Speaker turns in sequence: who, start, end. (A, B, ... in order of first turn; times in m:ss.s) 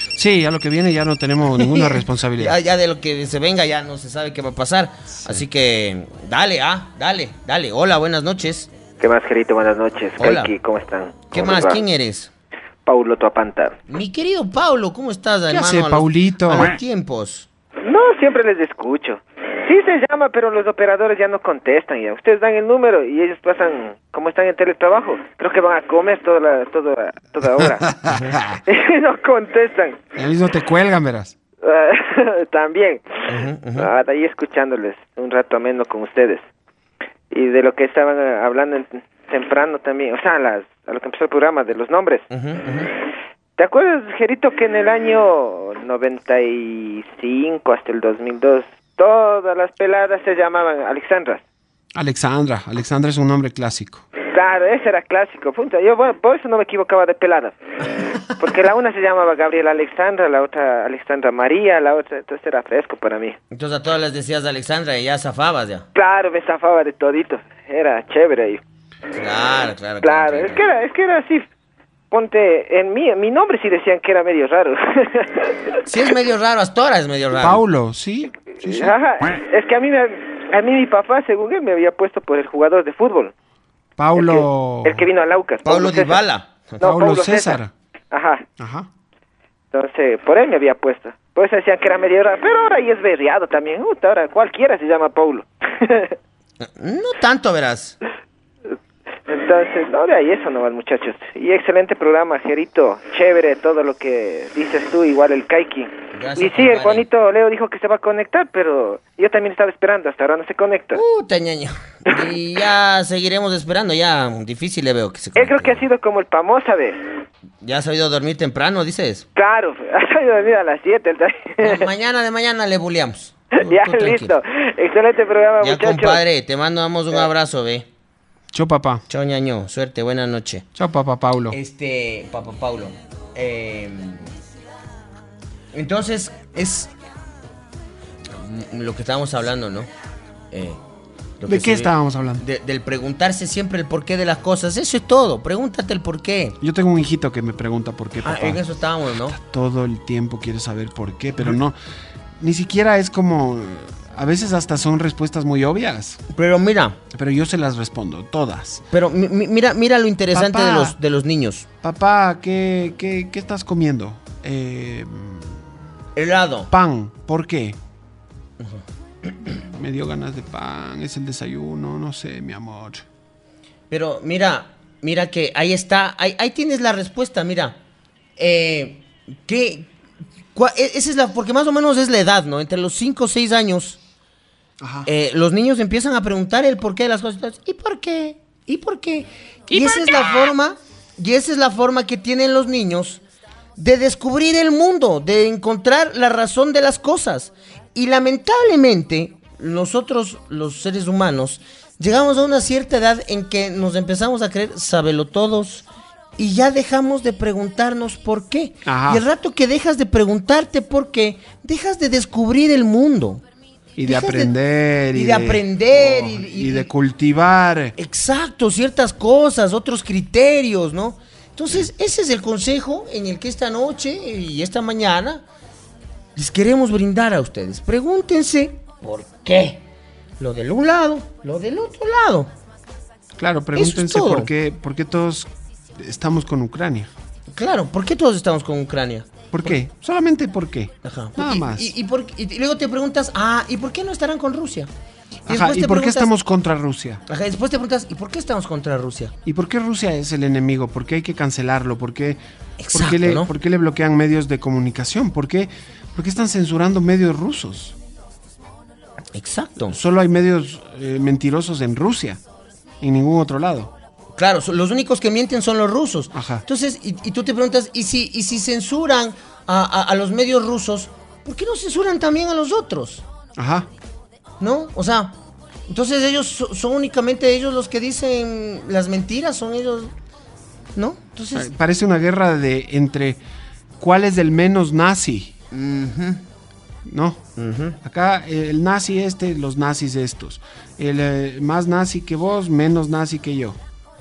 0:00.2-0:02.6 A
0:01.6-0:08.7 B
0:09.0-0:11.8 C
0:10.2-0:10.5 B
0:11.3-0:12.3 B
0:12.9-0:13.8 C
0:13.9-0:17.5 B
0:15.5-0:16.8 A
0:17.8-0:27.9 C
0:27.6-0:28.6 A
0:28.1-0:28.4 B
0:28.7-0:30.0 C
0:30.2-0:31.4 A
0:31.6-0:36.4 C
0:33.3-0:33.9 B
0:37.3-0:42.3 C
0:42.3-0:42.9 B
0:43.6-0:51.4 C
0:52.0-0:54.1 A
0:54.3-0:57.6 C
0:58.4-1:03.4 C
1:03.5-1:05.9 B
1:06.0-1:08.6 C
1:09.1-1:10.7 B
1:10.0-1:11.5 C
1:12.1-1:15.5 C
1:15.9-1:17.6 B
1:17.4-1:18.9 A
1:18.6-1:23.3 C
1:24.0-1:25.0 A
1:24.2-1:26.3 C
1:25.6-1:26.8 B
1:26.8-1:27.7 A
1:26.8-1:28.4 C
1:28.6-1:28.9 A
1:29.7-1:36.2 C
1:36.6-1:38.0 B
1:39.3-1:51.0 C
1:46.1-1:47.0 B
1:51.0-1:55.8 B
1:55.4-1:57.0 C
1:57.6-1:59.3 B
1:59.4-2:01.9 C
2:01.6-2:04.4 B
2:03.6-2:06.2 C
2:05.6-2:07.9 B
2:08.5-2:09.0 A
2:09.1-2:10.6 B
2:10.8-2:11.6 A
2:11.5-2:14.3 B
2:15.7-2:16.9 B
2:18.3-2:19.9 B
2:20.5-2:20.8 B
2:21.4-2:26.6 B
2:21.5-2:22.4 A
2:26.6-2:28.6 A
2:28.2-2:29.4 B
2:29.2-2:31.8 A
2:32.4-2:36.2 A
2:36.3-2:37.0 B
2:37.1-2:38.8 A
2:38.9-2:41.7 B
2:40.3-2:41.0 A
2:41.8-2:45.7 A
2:46.2-2:46.7 B
2:46.7-2:47.8 A
2:49.6-2:53.0 A
2:53.9-2:57.8 B
2:58.4-2:59.9 B
3:00.6-3:04.0 B
3:04.8-3:05.1 A
3:05.1-3:13.2 B
3:13.8-3:25.8 B
3:26.4-3:33.4 B
3:28.8-3:29.2 A
3:34.0-3:38.0 A
3:34.0-3:34.6 B
3:35.1-3:36.9 B
3:38.0-3:45.4 B
3:46.4-3:49.8 B
3:50.4-3:52.5 B
3:53.4-3:57.1 A
3:53.8-3:54.5 B
3:57.5-3:59.8 B
3:59.5-4:01.9 A
4:01.0-4:04.9 B
4:05.5-4:07.2 A
4:05.5-4:06.3 B
4:07.3-4:09.4 B
4:09.4-4:12.4 A
4:12.8-4:13.5 B
4:12.9-4:18.0 A
4:19.3-4:20.0 B
4:19.9-4:22.4 A
4:23.0-4:23.9 A
4:24.4-4:33.2 B
4:26.3-4:26.6 A
4:33.6-4:33.9 A
4:34.6-4:35.4 B
4:35.9-4:40.1 B
4:41.0-4:41.7 B
4:41.5-4:43.4 A
4:44.0-4:45.5 A
4:45.7-4:46.4 B
4:47.1-4:47.4 A
4:47.6-4:48.0 B
4:48.0-4:53.8 A